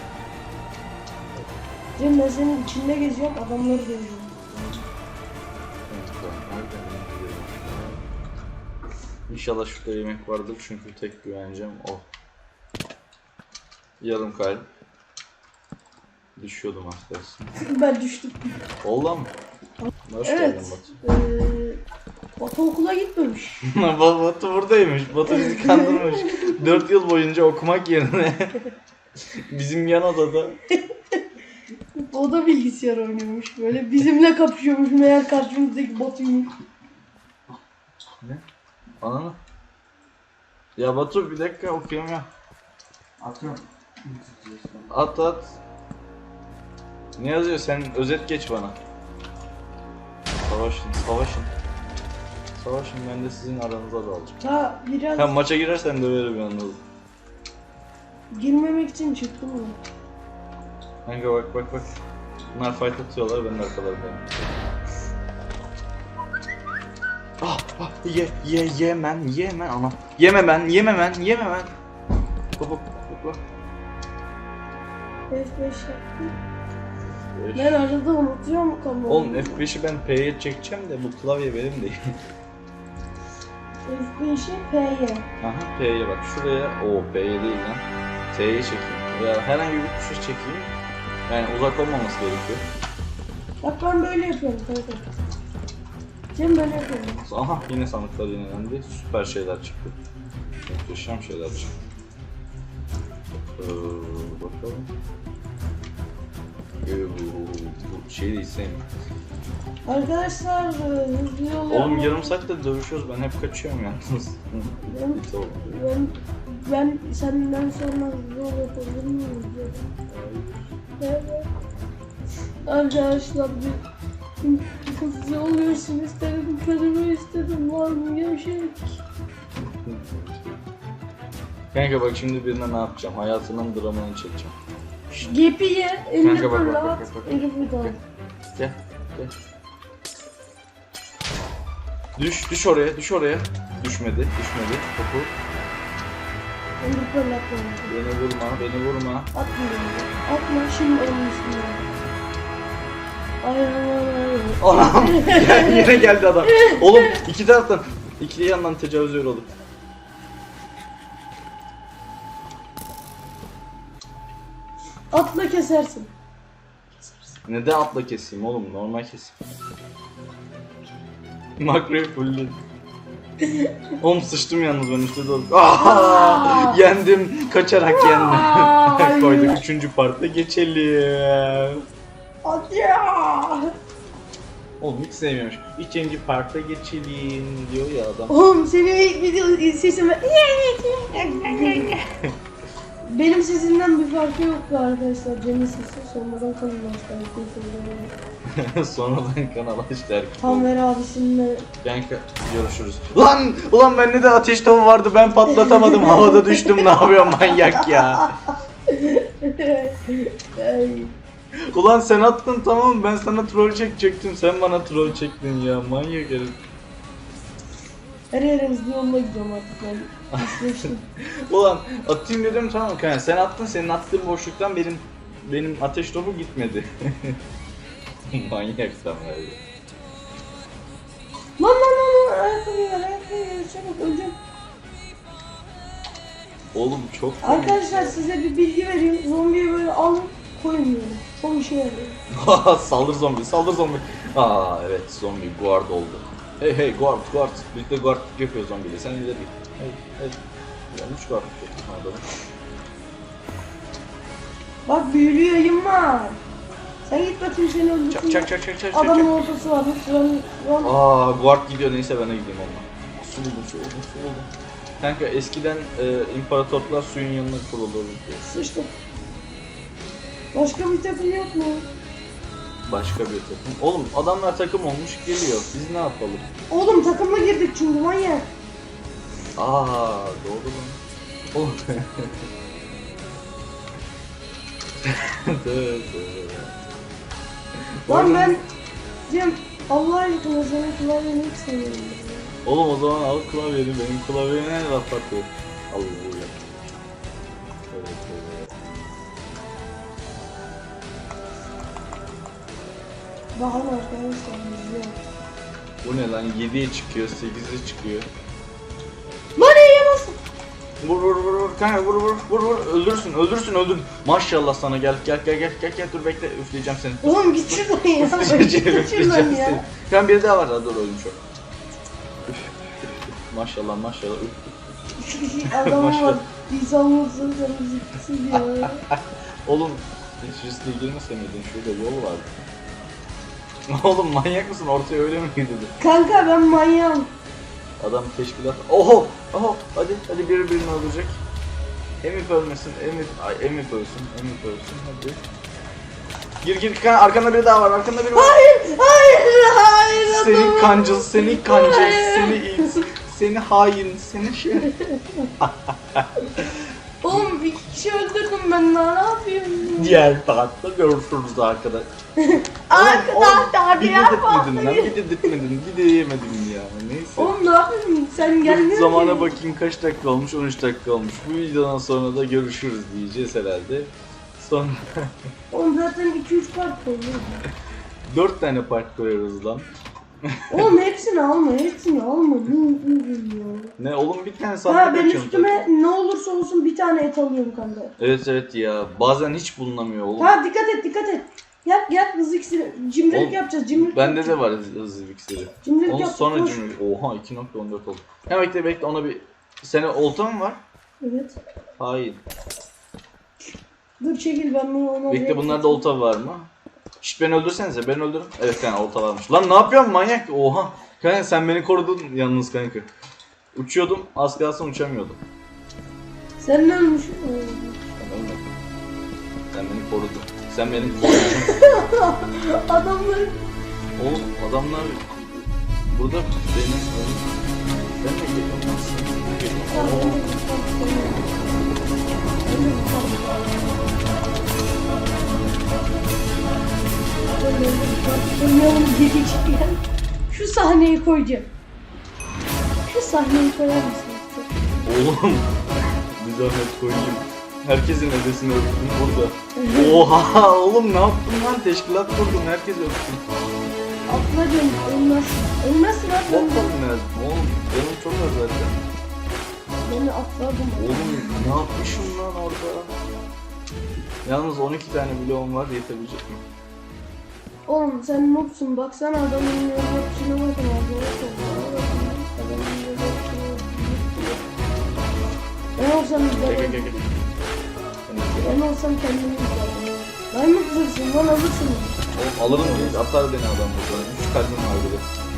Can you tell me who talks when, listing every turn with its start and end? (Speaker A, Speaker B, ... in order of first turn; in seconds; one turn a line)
Speaker A: 2.0-4.4
Speaker B: 4.5-4.8
Speaker B: 5.9-8.0
Speaker B: 9.3-12.1
Speaker B: 14.0-14.7
Speaker B: 16.4-17.5
Speaker A: 17.6-18.6
Speaker B: 18.8-19.3
Speaker B: 20.1-20.9
Speaker A: 20.2-21.8
Speaker A: 22.4-23.6
Speaker B: 23.6-28.6
Speaker A: 25.5-26.1
Speaker B: 29.5-30.6
Speaker A: 32.0-36.5
Speaker B: 39.0-39.4
Speaker B: 40.8-42.3
Speaker B: 43.2-43.6
Speaker B: 44.8-45.5
Speaker B: 47.2-48.8
Speaker B: 50.4-51.5
Speaker B: 52.5-54.4
Speaker A: 54.4-55.4
Speaker B: 55.2-56.8
Speaker A: 58.3-59.8
Speaker B: 61.1-61.9
Speaker B: 62.5-64.3
Speaker B: 67.4-71.7
Speaker B: 72.6-73.4
Speaker A: 75.3-76.3
Speaker B: 77.4-77.8
Speaker A: 77.5-79.6
Speaker B: 79.1-82.1
Speaker A: 83.9-85.3
Speaker B: 85.4-90.7
Speaker B: 91.3-92.7
Speaker A: 93.6-95.1
Speaker A: 96.3-97.2
Speaker B: 97.2-100.0
Speaker B: 100.7-101.7
Speaker B: 103.5-104.9
Speaker B: 106.8-108.8
Speaker A: 109.9-112.2
Speaker B: 111.7-115.8
Speaker A: 114.9-119.9
Speaker B: 120.1-120.6
Speaker A: 121.0-121.5
Speaker A: 122.7-123.8
Speaker A: 124.4-129.0
Speaker B: 129.8-130.4
Speaker B: 131.7-134.6
Speaker A: 135.1-138.0
Speaker B: 136.2-137.9
Speaker B: 138.5-139.3
Speaker B: 142.2-145.3
Speaker A: 146.8-147.9
Speaker B: 147.9-149.3
Speaker A: 149.3-151.9
Speaker A: 153.4-157.2
Speaker B: 154.6-159.5
Speaker A: 165.1-166.1
Speaker B: 167.5-169.4
Speaker B: 171.6-172.6
Speaker A: 173.4-173.7
Speaker B: 174.0-181.8
Speaker A: 175.8-176.8
Speaker A: 177.9-179.6
Speaker A: 182.4-183.7
Speaker B: 184.8-188.4
Speaker A: 188.3-192.0
Speaker B: 191.2-192.2
Speaker A: 193.1-198.2
Speaker B: 198.5-200.7
Speaker A: 200.4-201.7
Speaker B: 201.8-208.3
Speaker A: 205.5-208.3
Speaker A: 208.9-211.1
Speaker B: 211.7-216.6
Speaker A: 218.3-221.1
Speaker B: 220.3-220.9
Speaker B: 221.5-227.4
Speaker B: 228.3-229.6
Speaker A: 231.6-234.4
Speaker B: 236.7-238.2
Speaker A: 237.4-242.2
Speaker B: 242.3-250.4
Speaker B: 250.9-252.2
Speaker A: 254.9-256.4
Speaker A: 257.1-260.9
Speaker B: 258.1-259.6
Speaker B: 260.8-268.4
Speaker A: 268.4-268.9
Speaker A: 270.5-271.9
Speaker B: 272.9-276.5
Speaker A: 276.7-278.5
Speaker B: 279.6-281.0
Speaker B: 281.5-282.4
Speaker B: 285.1-286.8
Speaker B: 287.8-288.6
Speaker A: 288.1-288.7
Speaker A: 289.3-292.5
Speaker B: 292.6-296.6
Speaker B: 297.9-298.7
Speaker A: 303.6-305.2
Speaker B: 306.0-308.3
Speaker A: 309.6-310.4
Speaker B: 311.0-321.4
Speaker A: 317.2-319.9
Speaker B: 323.5-324.8
Speaker A: 325.2-329.0
Speaker B: 325.6-326.4
Speaker B: 328.5-332.5
Speaker B: 333.9-335.9
Speaker A: 336.0-337.3
Speaker B: 338.0-341.4
Speaker B: 342.2-345.4
Speaker B: 346.6-348.6
Speaker A: 348.3-353.0
Speaker B: 350.2-354.9
Speaker A: 355.0-355.5
Speaker B: 355.6-356.8
Speaker A: 357.2-360.2
Speaker B: 360.0-362.1
Speaker A: 362.4-365.5
Speaker B: 362.9-367.6
Speaker A: 367.4-369.6
Speaker B: 368.6-375.3
Speaker A: 375.7-377.6
Speaker B: 378.3-379.9
Speaker B: 380.5-380.9
Speaker A: 380.7-383.9
Speaker B: 384.0-385.9
Speaker A: 384.9-388.1
Speaker B: 388.2-390.6
Speaker A: 390.4-394.6
Speaker B: 393.3-400.8
Speaker A: 395.8-396.9
Speaker A: 401.2-401.6
Speaker B: 402.0-402.4
Speaker A: 404.2-406.1
Speaker B: 405.3-406.7
Speaker B: 407.2-413.1
Speaker B: 413.8-415.4
Speaker A: 416.6-418.0
Speaker B: 418.1-418.7
Speaker B: 419.7-421.7
Speaker A: 421.2-423.6
Speaker B: 424.2-425.3
Speaker B: 426.1-427.5
Speaker B: 428.2-430.4
Speaker A: 429.9-431.5
Speaker A: 432.7-434.0
Speaker A: 437.6-441.7
Speaker A: 443.1-444.7
Speaker B: 445.0-445.7
Speaker B: 446.4-453.4
Speaker A: 449.8-450.3
Speaker A: 454.3-456.9
Speaker B: 456.5-459.0
Speaker A: 460.0-461.4
Speaker B: 461.0-463.1
Speaker B: 464.4-466.6
Speaker A: 467.9-474.6
Speaker A: 476.0-477.2
Speaker B: 476.7-477.3
Speaker B: 478.3-478.8
Speaker A: 478.6-483.2
Speaker B: 482.3-485.3